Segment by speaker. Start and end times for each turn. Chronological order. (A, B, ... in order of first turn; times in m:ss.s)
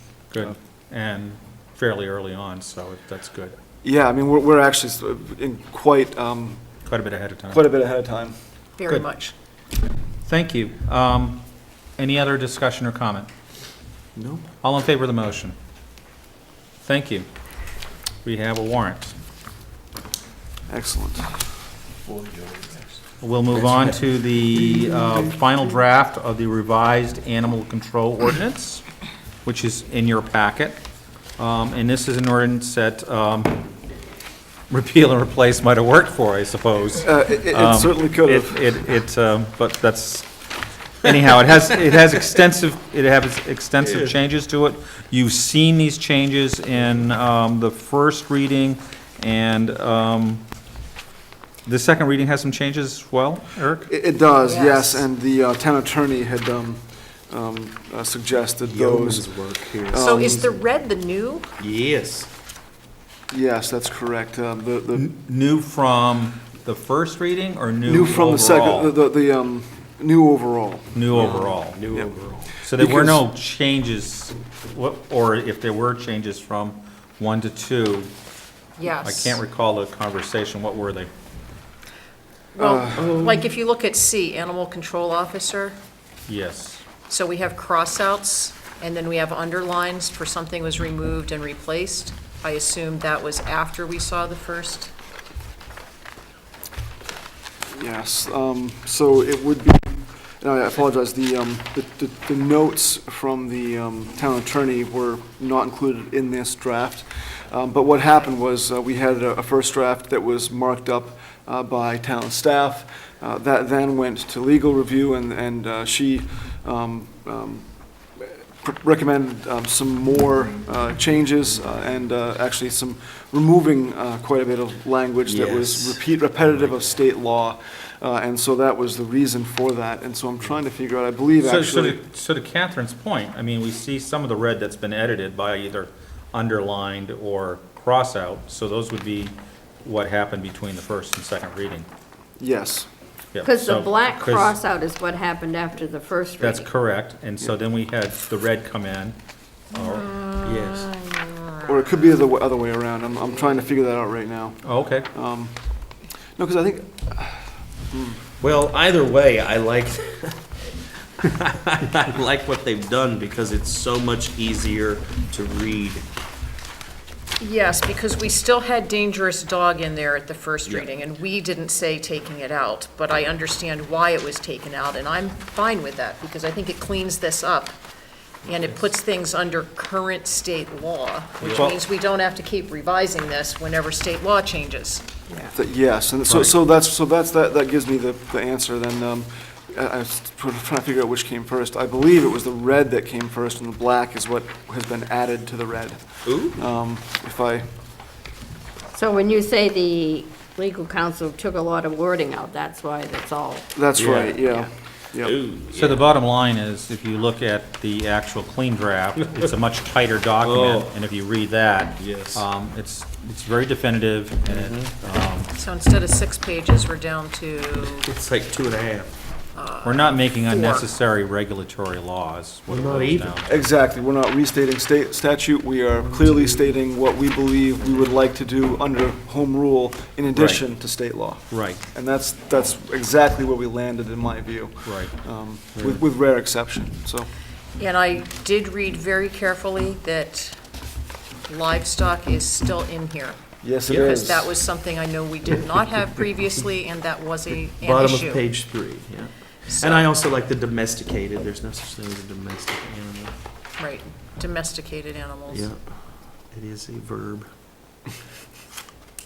0:00.3-0:03.6 A
0:03.8-0:06.6 B
0:06.8-0:07.6 A
0:07.5-0:08.4 B
0:08.8-0:09.3 C
0:10.2-0:11.4 A
0:12.0-0:13.3 A
0:14.2-0:14.4 D
0:14.6-0:15.5 A
0:16.8-0:17.3 A
0:18.2-0:19.1 A
0:20.7-0:21.4 B
0:22.0-0:23.0 D
0:23.2-0:28.8 A
0:23.5-0:24.0 D
0:24.6-0:25.3 D
0:29.4-0:30.8 A
0:31.4-0:33.6 A
0:34.7-0:40.3 A
0:37.0-0:38.6 B
0:41.0-0:50.4 A
0:43.8-0:44.1 D
0:51.6-0:53.9 A
0:53.9-1:00.6 B
0:54.4-0:55.1 C
0:58.6-1:00.5 D
0:59.9-1:01.5 C
1:01.6-1:02.3 D
1:03.3-1:05.1 B
1:04.9-1:08.9 A
1:07.8-1:13.2 B
1:10.9-1:11.8 A
1:11.1-1:12.5 D
1:12.6-1:18.1 A
1:18.8-1:19.4 C
1:19.0-1:21.1 A
1:22.5-1:25.8 C
1:22.6-1:23.2 B
1:23.0-1:23.4 D
1:26.3-1:26.8 A
1:27.1-1:34.9 C
1:37.7-2:12.0 B
2:05.2-2:06.0 D
2:11.4-2:21.9 A
2:22.4-2:22.9 B
2:23.3-2:24.5 A
2:23.4-2:26.7 E
2:26.4-2:29.2 A
2:29.7-2:30.1 A
2:29.7-2:32.2 C
2:30.4-2:30.9 D
2:31.7-2:35.5 B
2:34.6-2:35.1 A
2:36.4-2:38.3 B
2:38.4-2:40.4 D
2:41.2-2:46.0 D
2:47.4-2:57.8 C
2:50.6-2:50.9 D
2:58.4-3:05.2 C
2:58.5-2:58.8 D
3:01.4-3:01.7 D
3:05.5-3:17.7 B
3:06.3-3:06.6 A
3:16.2-3:16.6 D
3:18.9-3:23.8 E
3:23.7-3:25.4 B
3:23.9-3:24.4 D
3:25.2-3:26.0 D
3:25.7-3:35.5 A
3:30.4-3:30.9 D
3:32.0-3:32.4 D
3:34.5-3:34.9 D
3:35.5-3:38.1 C
3:37.8-3:39.1 D
3:39.5-3:40.8 C
3:39.8-3:43.6 A
3:42.7-3:43.4 D
3:43.4-3:57.3 B
3:46.1-3:46.7 D
3:50.3-3:50.6 A
3:51.5-3:51.8 A
3:54.8-3:55.1 A
3:55.7-3:56.0 A
3:57.8-4:00.6 C
4:01.5-4:08.4 C
4:03.6-4:04.5 B
4:07.8-4:13.3 D
4:09.7-4:10.1 C
4:13.8-4:15.7 C
4:15.5-4:16.0 D
4:16.5-4:17.5 D